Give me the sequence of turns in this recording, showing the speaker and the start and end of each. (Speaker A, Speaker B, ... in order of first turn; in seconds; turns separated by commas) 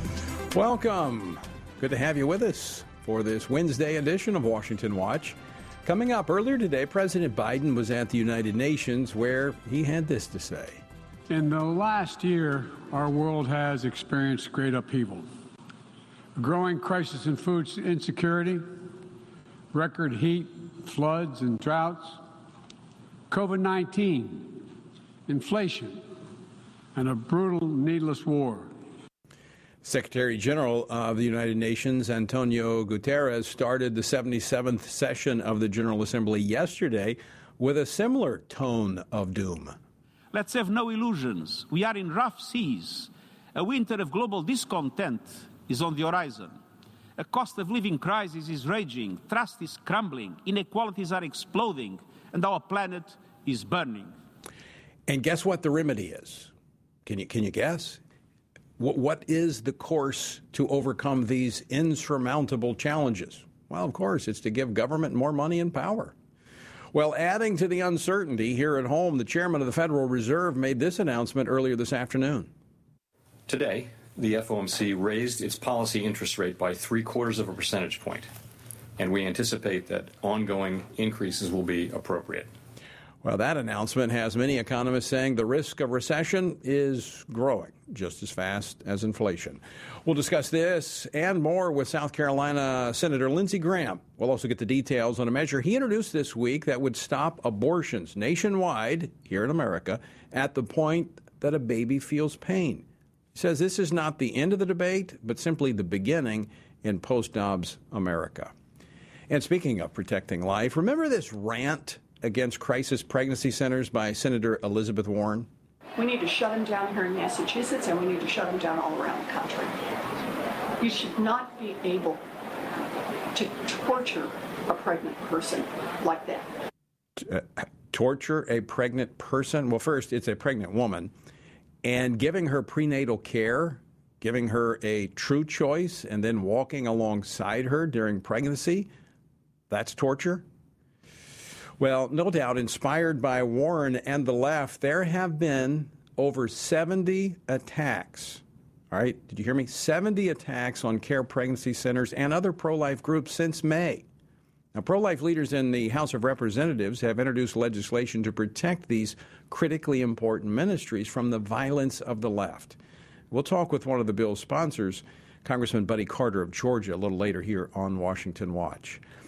Speaker A: 0.5-10.8, Speaker B: 11.3-15.3, Speaker B: 16.4-18.8, Speaker B: 19.7-22.2, Speaker B: 23.3-24.7, Speaker B: 25.3-26.0, Speaker B: 26.9-28.7, Speaker A: 29.8-39.8, Speaker C: 40.3-46.6, Speaker C: 47.2-54.1, Speaker A: 55.1-56.5, Speaker A: 57.0-58.0, Speaker A: 58.8-66.1, Speaker A: 66.9-72.5, Speaker D: 73.5-78.3, Speaker D: 79.0-82.5, Speaker A: 83.2-108.5, Speaker A: 109.3-115.5, Speaker E: 116.0-119.8, Speaker E: 120.8-122.2, Speaker E: 123.3-126.5, Speaker A: 127.2-131.1, Speaker A: 131.8-138.9, Speaker A: 139.7-140.4, Speaker A: 141.8-154.1, Speaker A: 154.7-162.8, Speaker A: 163.3-169.0